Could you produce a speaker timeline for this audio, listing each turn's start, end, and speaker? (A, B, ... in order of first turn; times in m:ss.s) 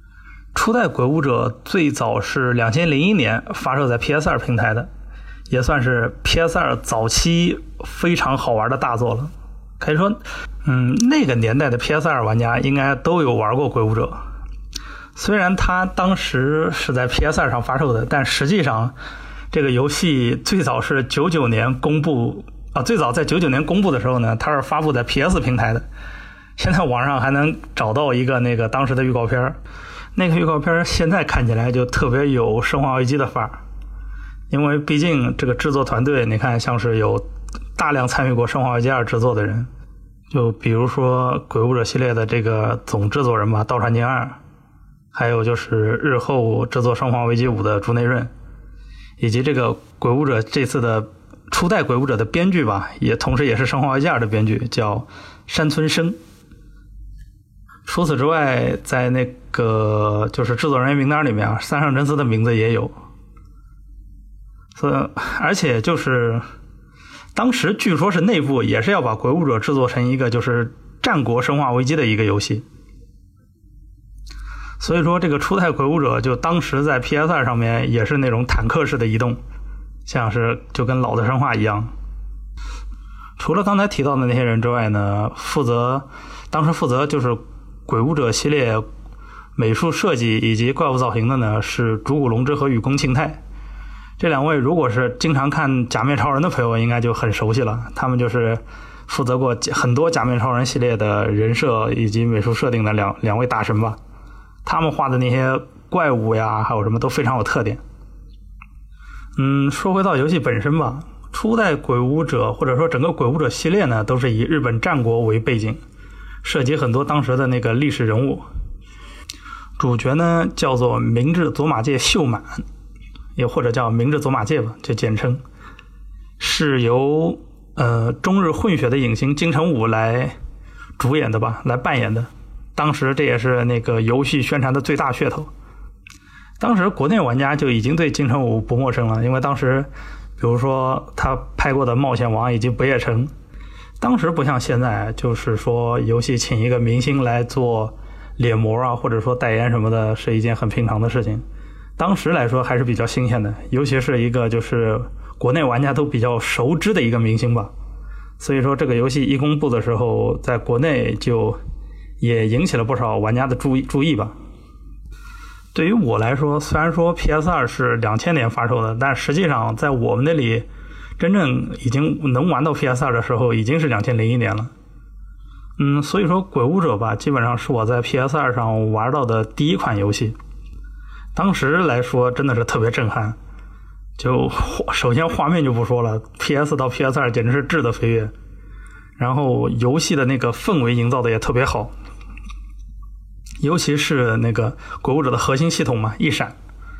0:00.5-0:04.9 A
0:05.5-0:14.2 A
0:15.2-0:18.9 A
0:19.5-0:25.8 A
0:26.6-0:29.6 A
0:30.1-0:33.6 A
0:34.5-0:37.2 A
0:37.8-0:39.7 A
0:40.3-0:44.4 A
0:45.1-0:48.3 A
0:49.2-0:56.2 A
0:57.8-1:02.9 A
1:04.7-1:06.4 A
1:07.3-1:12.6 A
1:14.8-1:19.4 A
1:20.0-1:21.9 A
1:23.4-1:28.8 A
1:29.6-1:33.4 A
1:34.2-1:44.0 A
1:44.6-1:47.8 A
1:49.4-1:55.8 A
1:56.4-1:58.4 A
1:59.8-2:02.6 A
2:03.4-2:05.4 A
2:06.4-2:10.3 A
2:11.0-2:15.5 A
2:16.6-2:23.3 A
2:24.0-2:31.4 A
2:32.0-2:37.7 A
2:38.4-2:41.6 A
2:42.2-2:44.3 A
2:45.7-2:50.7 A
2:51.2-2:54.7 A
2:55.8-3:00.4 A
3:01.3-3:03.4 A
3:04.2-3:08.3 A
3:09.2-3:11.9 A
3:13.6-3:16.5 A